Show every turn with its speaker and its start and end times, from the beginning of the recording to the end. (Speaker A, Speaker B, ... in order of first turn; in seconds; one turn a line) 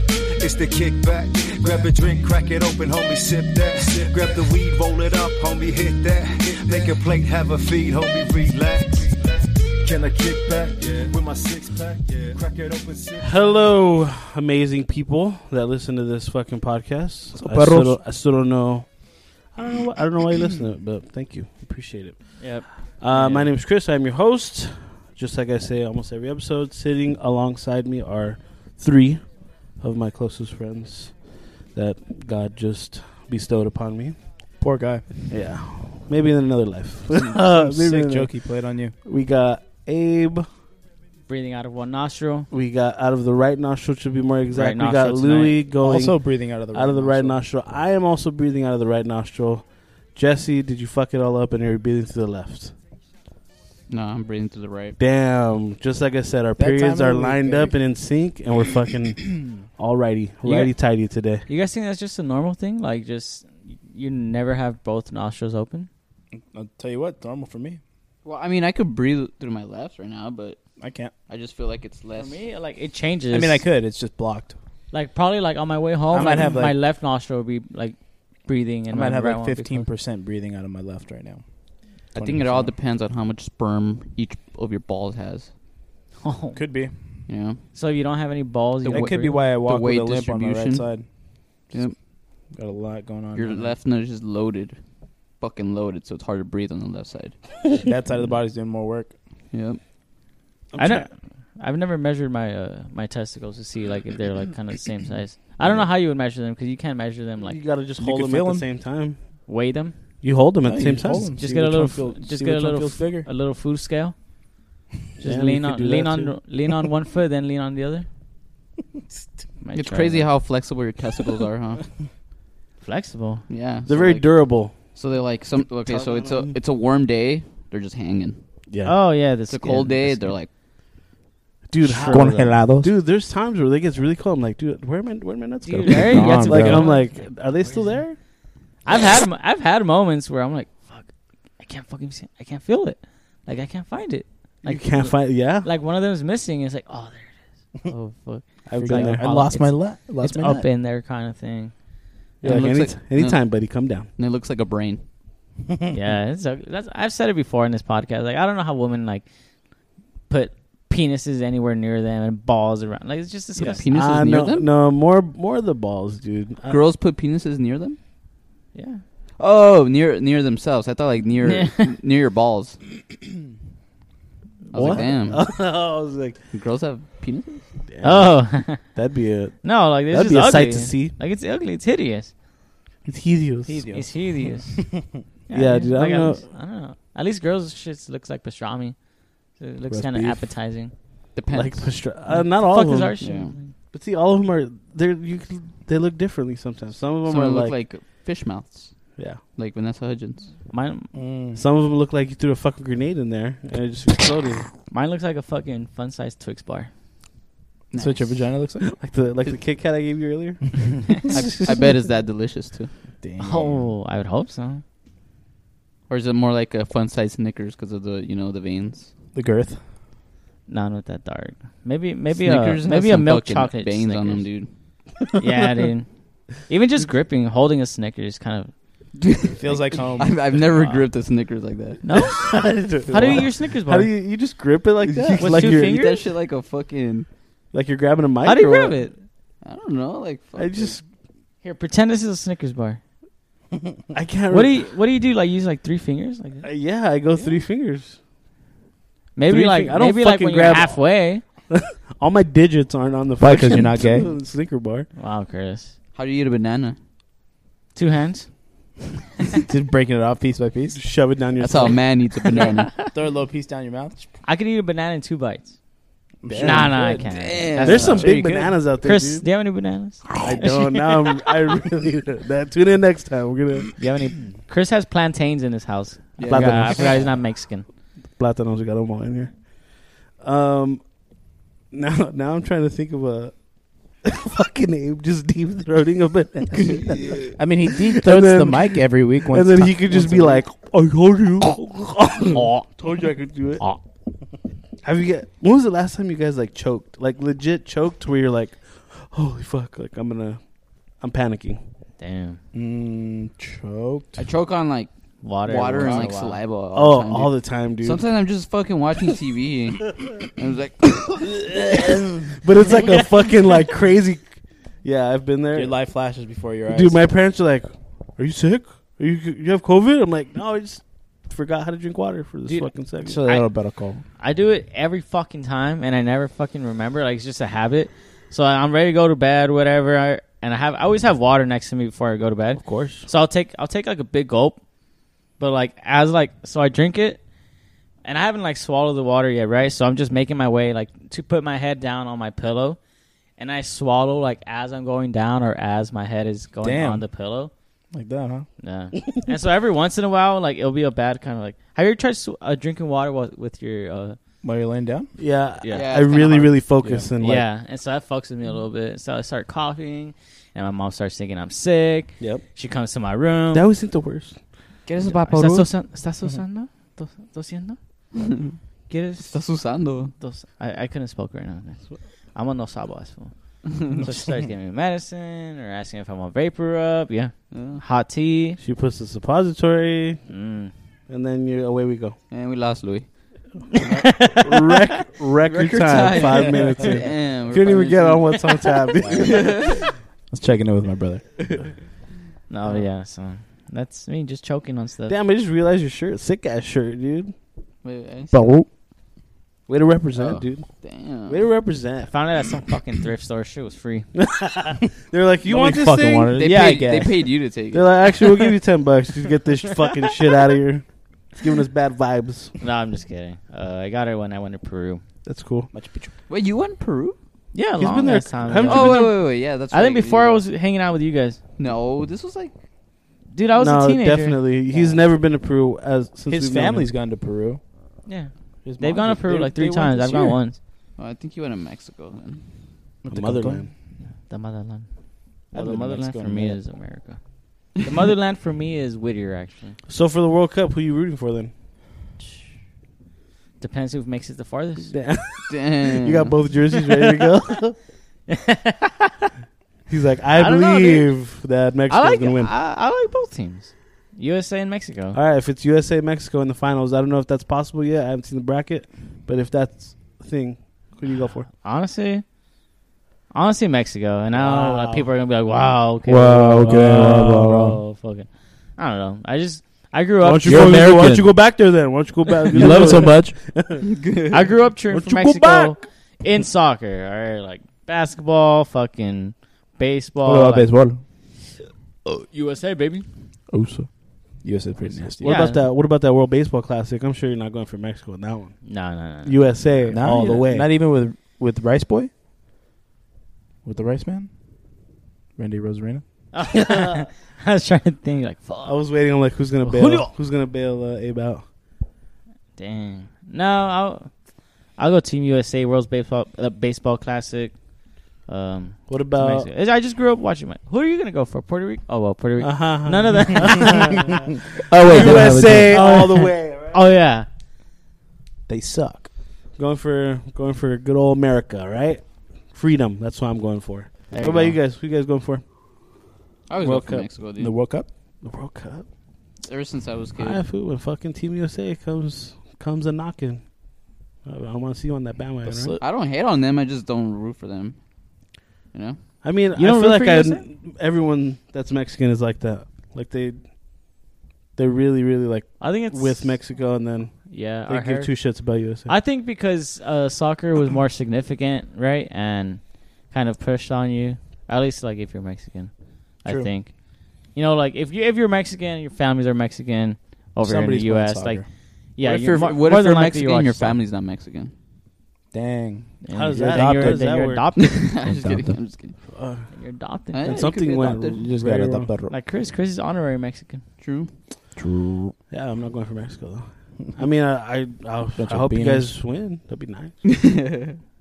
Speaker A: 0.4-9.2
Speaker A: 9.8-13.6
Speaker B: 13.2-18.9
Speaker C: 17.3-18.0
Speaker B: 19.5-34.2
Speaker D: 22.4-23.5
Speaker C: 34.6-35.0
Speaker B: 35.3-38.3
Speaker C: 37.1-38.9
Speaker B: 39.0-40.5
Speaker D: 41.3-42.5
Speaker B: 42.5-52.7
Speaker D: 44.5-45.6
Speaker C: 45.8-47.4
Speaker E: 53.9-55.0
Speaker B: 55.0-61.5
Speaker C: 56.6-57.8
Speaker D: 60.5-60.7
Speaker D: 61.5-65.9
Speaker C: 66.3-67.8
Speaker E: 68.2-70.6
Speaker C: 70.8-71.1
Speaker E: 71.3-72.4
Speaker D: 72.2-73.7
Speaker C: 73.3-74.5
Speaker D: 74.9-79.9
Speaker C: 76.1-76.8
Speaker C: 78.9-81.4
Speaker E: 82.1-85.5
Speaker C: 82.1-82.7
Speaker D: 86.2-86.6
Speaker C: 86.5-86.9
Speaker E: 87.3-87.6
Speaker D: 87.7-89.4
Speaker E: 88.9-90.9
Speaker C: 88.9-91.1
Speaker E: 91.7-92.0
Speaker C: 92.5-93.8
Speaker E: 93.3-94.8
Speaker E: 95.4-97.4
Speaker C: 97.8-99.1
Speaker E: 99.5-99.8
Speaker B: 100.7-101.1
Speaker D: 100.8-107.6
Speaker B: 107.4-109.2
Speaker C: 108.0-108.7
Speaker D: 109.5-109.9
Speaker B: 110.2-111.3
Speaker C: 110.6-113.3
Speaker D: 111.4-114.2
Speaker D: 115.2-118.1
Speaker B: 115.2-116.4
Speaker D: 119.6-120.3
Speaker E: 119.7-121.8
Speaker D: 122.8-123.4
Speaker E: 123.5-128.4
Speaker B: 123.9-124.9
Speaker B: 125.8-126.5
Speaker B: 128.7-128.9
Speaker D: 128.8-130.3
Speaker E: 129.5-130.5
Speaker B: 131.7-138.2
Speaker D: 131.9-132.4
Speaker C: 132.1-132.9
Speaker D: 135.7-137.8
Speaker C: 135.7-136.9
Speaker D: 138.8-151.7
Speaker B: 144.6-145.7
Speaker B: 148.7-149.2
Speaker C: 148.8-150.7
Speaker B: 152.4-154.1
Speaker E: 152.4-155.0
Speaker D: 155.9-159.2
Speaker D: 160.3-163.8
Speaker B: 163.6-166.8
Speaker E: 163.6-164.7
Speaker E: 166.7-168.0
Speaker D: 168.7-169.0
Speaker E: 169.4-172.8
Speaker D: 171.4-171.9
Speaker D: 174.7-175.1
Speaker E: 174.7-175.5
Speaker B: 174.8-176.4
Speaker E: 176.5-177.7
Speaker B: 177.9-181.1
Speaker D: 178.0-178.9
Speaker D: 179.6-182.3
Speaker B: 183.1-183.9
Speaker C: 183.7-185.2
Speaker D: 183.9-189.0
Speaker B: 185.5-186.4
Speaker D: 189.6-190.9
Speaker C: 189.9-190.4
Speaker E: 191.3-191.9
Speaker B: 191.5-193.2
Speaker D: 192.3-193.7
Speaker E: 193.2-193.5
Speaker B: 193.9-197.8
Speaker E: 197.2-200.5
Speaker D: 200.7-201.1
Speaker C: 201.1-201.6
Speaker B: 201.6-204.7
Speaker D: 204.9-206.9
Speaker E: 207.9-208.4
Speaker C: 207.9-208.9
Speaker B: 208.8-211.3
Speaker E: 211.3-212.9
Speaker C: 213.2-213.8
Speaker D: 213.4-214.8
Speaker E: 216.1-219.1
Speaker C: 219.3-219.8
Speaker D: 220.7-224.5
Speaker E: 222.4-224.7
Speaker D: 225.4-228.7
Speaker E: 229.2-229.6
Speaker C: 229.6-230.3
Speaker D: 229.9-231.1
Speaker E: 230.2-232.0
Speaker D: 232.0-234.1
Speaker B: 232.2-236.0
Speaker E: 233.1-233.4
Speaker E: 235.0-237.3
Speaker D: 235.4-236.2
Speaker B: 237.7-239.0
Speaker D: 238.4-239.2
Speaker E: 239.6-240.9
Speaker B: 240.6-241.0
Speaker D: 241.6-243.0
Speaker B: 244.1-244.8
Speaker D: 244.5-246.7
Speaker B: 246.6-248.2
Speaker D: 249.3-251.4
Speaker B: 249.5-251.1
Speaker B: 251.7-255.1
Speaker C: 253.4-254.3
Speaker D: 255.2-255.9
Speaker E: 256.1-256.9
Speaker D: 257.9-258.5
Speaker C: 259.7-261.0
Speaker B: 260.9-262.1
Speaker E: 261.6-262.9
Speaker C: 263.0-264.3
Speaker D: 264.4-265.8
Speaker C: 266.4-267.3
Speaker B: 266.6-266.9
Speaker D: 266.6-268.4
Speaker E: 266.8-268.8
Speaker B: 267.8-269.4
Speaker D: 269.0-270.4
Speaker B: 270.4-273.9
Speaker D: 274.0-277.9
Speaker E: 276.4-277.2
Speaker B: 276.4-277.4
Speaker B: 278.4-279.7
Speaker B: 280.4-281.1
Speaker B: 281.9-283.6
Speaker B: 284.2-293.8
Speaker E: 286.9-287.5
Speaker C: 287.6-290.6
Speaker D: 292.5-292.9
Speaker B: 295.0-300.6
Speaker B: 301.2-301.8
Speaker D: 302.2-302.6
Speaker C: 302.7-304.4
Speaker E: 304.4-305.1
Speaker D: 305.4-306.6
Speaker E: 305.6-312.0
Speaker B: 306.9-308.2
Speaker B: 311.6-314.5
Speaker B: 315.0-315.9
Speaker C: 315.7-317.2
Speaker B: 316.9-323.4
Speaker C: 323.2-324.2
Speaker D: 323.4-323.7
Speaker D: 324.4-334.8
Speaker B: 332.8-333.3
Speaker D: 335.6-337.4
Speaker D: 338.2-343.0
Speaker D: 343.6-347.7
Speaker C: 346.8-347.2
Speaker C: 348.1-348.7
Speaker D: 348.8-354.4
Speaker C: 354.6-355.3
Speaker B: 355.4-357.6
Speaker D: 355.8-356.2
Speaker E: 355.9-356.7
Speaker C: 357.0-357.3
Speaker D: 357.4-363.8
Speaker B: 363.7-364.6
Speaker E: 365.1-365.9
Speaker D: 365.5-368.0
Speaker E: 368.4-368.8
Speaker D: 369.1-369.5
Speaker E: 369.4-370.3
Speaker D: 370.4-378.8
Speaker E: 377.7-378.0
Speaker B: 378.8-380.4
Speaker D: 380.5-380.9
Speaker B: 381.3-382.4
Speaker E: 382.5-383.3
Speaker D: 383.9-385.0
Speaker B: 384.5-389.9
Speaker E: 385.6-388.6
Speaker D: 389.2-389.6
Speaker E: 389.2-390.0
Speaker C: 390.5-391.7
Speaker D: 392.7-395.4
Speaker B: 395.3-397.5
Speaker E: 398.0-398.7
Speaker C: 398.5-398.9
Speaker B: 399.9-402.3
Speaker E: 400.4-401.6
Speaker D: 402.3-404.3
Speaker B: 404.4-407.0
Speaker C: 405.7-407.4
Speaker E: 406.5-408.7
Speaker B: 407.9-412.8
Speaker D: 412.8-415.2
Speaker B: 415.4-415.9
Speaker C: 415.9-416.3
Speaker E: 416.5-417.4
Speaker D: 417.7-421.6
Speaker B: 418.0-419.3
Speaker E: 418.9-420.6
Speaker E: 421.8-422.7
Speaker D: 423.5-424.6
Speaker B: 423.8-427.1
Speaker C: 426.5-427.8
Speaker D: 428.2-430.8
Speaker C: 428.8-430.6
Speaker E: 431.2-432.6
Speaker C: 433.2-433.8
Speaker B: 433.3-433.9
Speaker D: 434.2-435.1
Speaker D: 435.7-437.4
Speaker C: 435.7-436.8
Speaker D: 437.9-440.0
Speaker B: 440.1-441.7
Speaker D: 443.8-445.1
Speaker B: 445.1-447.9
Speaker E: 445.7-446.6
Speaker D: 448.5-449.5
Speaker B: 450.1-452.7
Speaker D: 450.6-451.3
Speaker D: 452.1-455.4
Speaker B: 455.3-461.7
Speaker D: 461.7-462.4
Speaker D: 463.5-471.1
Speaker B: 464.6-465.3
Speaker C: 466.3-468.0
Speaker B: 466.9-467.4
Speaker B: 470.4-474.0
Speaker C: 470.6-471.5
Speaker C: 472.7-473.6
Speaker D: 472.8-473.3
Speaker E: 474.1-474.6
Speaker D: 474.5-480.9
Speaker B: 475.1-476.0
Speaker C: 480.4-481.2
Speaker D: 482.2-483.3
Speaker C: 483.7-485.6
Speaker D: 485.0-485.9
Speaker B: 485.4-488.9
Speaker D: 488.9-489.6
Speaker B: 489.4-490.9
Speaker C: 490.1-492.3
Speaker C: 493.9-494.5
Speaker C: 495.6-496.2
Speaker D: 496.5-499.0
Speaker B: 496.8-497.2
Speaker B: 498.9-501.6
Speaker D: 499.8-500.3
Speaker D: 502.8-504.3
Speaker D: 505.0-507.8
Speaker D: 508.5-514.3
Speaker B: 509.1-509.7
Speaker B: 512.6-517.0
Speaker C: 514.9-516.2
Speaker E: 515.1-515.9
Speaker D: 515.1-517.5
Speaker C: 518.7-519.3
Speaker B: 519.8-525.7
Speaker D: 524.3-524.8
Speaker E: 526.7-527.8
Speaker B: 526.8-527.3
Speaker C: 527.5-528.1
Speaker B: 528.4-529.0
Speaker E: 529.7-530.6
Speaker B: 530.4-533.7
Speaker B: 534.4-536.0
Speaker C: 535.6-536.0
Speaker E: 536.0-538.0
Speaker E: 538.9-539.2
Speaker B: 539.4-543.8
Speaker D: 539.8-540.6
Speaker B: 544.8-549.1
Speaker D: 545.8-546.6
Speaker D: 547.5-548.5
Speaker D: 549.1-557.0
Speaker C: 556.5-556.7
Speaker D: 557.5-564.0
Speaker C: 560.6-561.7
Speaker E: 562.2-564.7
Speaker C: 565.5-567.3
Speaker D: 566.2-568.1
Speaker B: 566.4-567.6
Speaker E: 567.8-569.1
Speaker C: 568.2-568.8
Speaker B: 569.3-569.7
Speaker D: 569.7-570.7
Speaker E: 570.3-571.4
Speaker B: 570.4-572.1
Speaker C: 571.4-572.3
Speaker D: 572.3-573.8
Speaker E: 574.0-574.3
Speaker C: 574.8-575.4
Speaker B: 575.5-580.1
Speaker C: 578.4-579.1
Speaker E: 580.2-581.0